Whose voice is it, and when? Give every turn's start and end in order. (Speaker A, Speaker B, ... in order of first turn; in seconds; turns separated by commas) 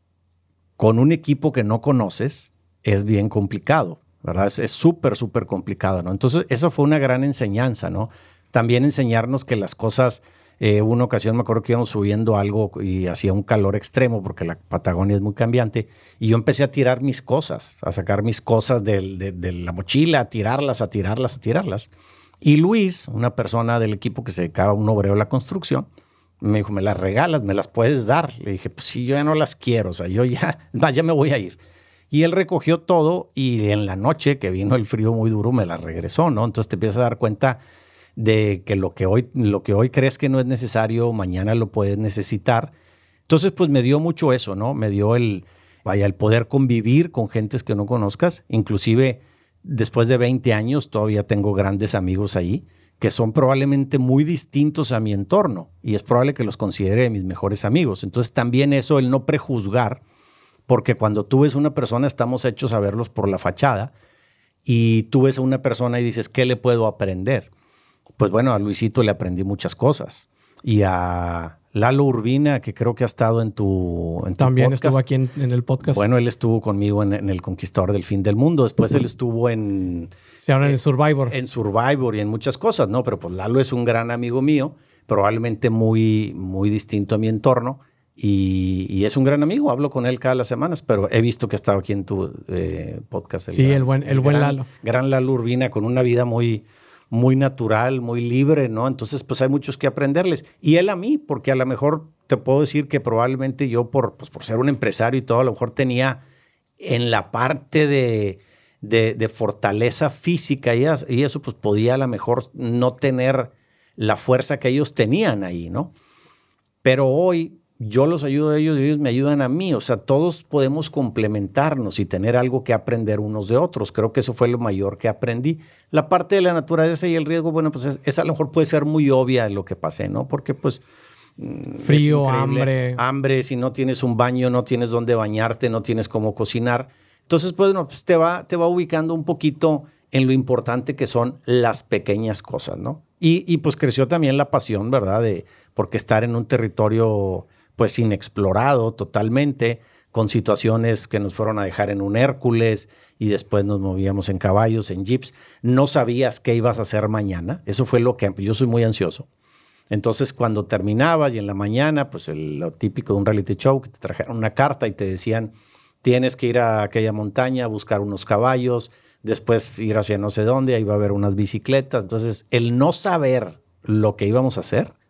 Speaker A: 0.8-21.9, Speaker A: 22.4-25.9, Speaker A: 26.4-31.6, Speaker A: 32.1-37.6, Speaker A: 38.1-42.7, Speaker A: 43.3-60.0, Speaker A: 60.7-63.9, Speaker A: 64.6-67.5, Speaker A: 68.2-75.0, Speaker B: 74.4-76.1, Speaker A: 75.8-80.8, Speaker B: 80.4-81.3, Speaker A: 81.3-106.2, Speaker B: 93.5-94.7, Speaker A: 106.8-115.9, Speaker A: 116.8-130.8, Speaker A: 131.4-159.3, Speaker B: 131.8-133.0, Speaker A: 159.9-174.9